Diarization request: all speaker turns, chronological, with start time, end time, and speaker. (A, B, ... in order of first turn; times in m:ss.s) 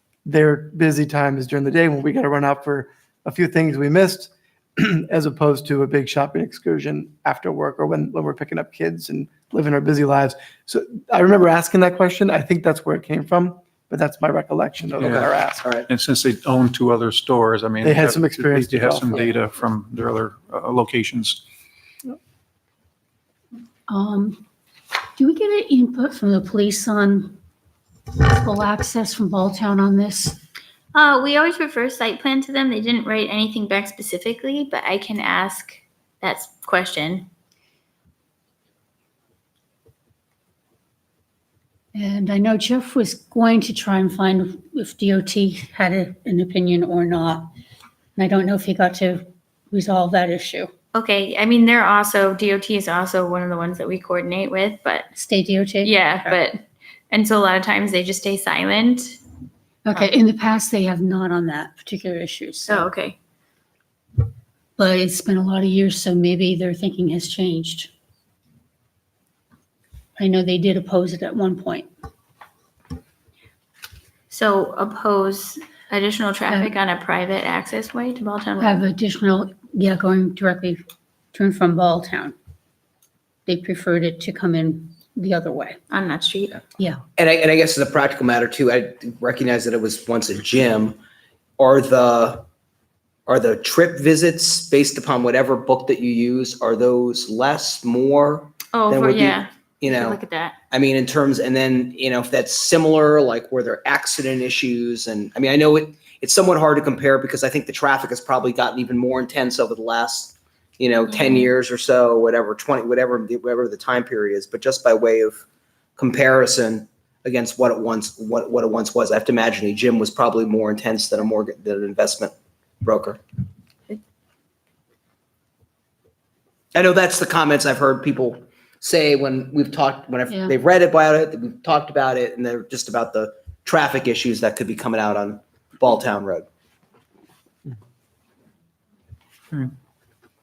0:00.3-0:15.7 A
0:15.0-0:15.3 B
0:15.0-0:15.9 C
0:15.9-0:21.4 B
0:17.8-0:19.4 A
0:23.9-0:24.5 D
0:25.2-0:27.4 D
0:28.1-0:30.4 D
0:30.9-0:37.3 E
0:42.0-0:47.5 D
0:48.2-0:50.7 D
0:50.9-0:55.1 E
0:55.2-0:56.4 D
0:55.8-0:59.2 E
0:59.8-1:02.9 D
1:02.7-1:03.2 E
1:04.8-1:07.9 D
1:10.2-1:11.9 D
1:14.3-1:18.8 E
1:16.5-1:16.8 D
1:18.6-1:22.4 D
1:23.5-1:25.8 D
1:25.9-1:26.6 E
1:27.2-1:31.0 C
1:31.6-1:32.5 C
1:33.3-1:40.2 C
1:38.7-1:40.6 E
1:40.7-1:55.4 C
1:51.1-1:51.5 E
1:56.0-2:03.2 C
2:06.7-2:16.5 C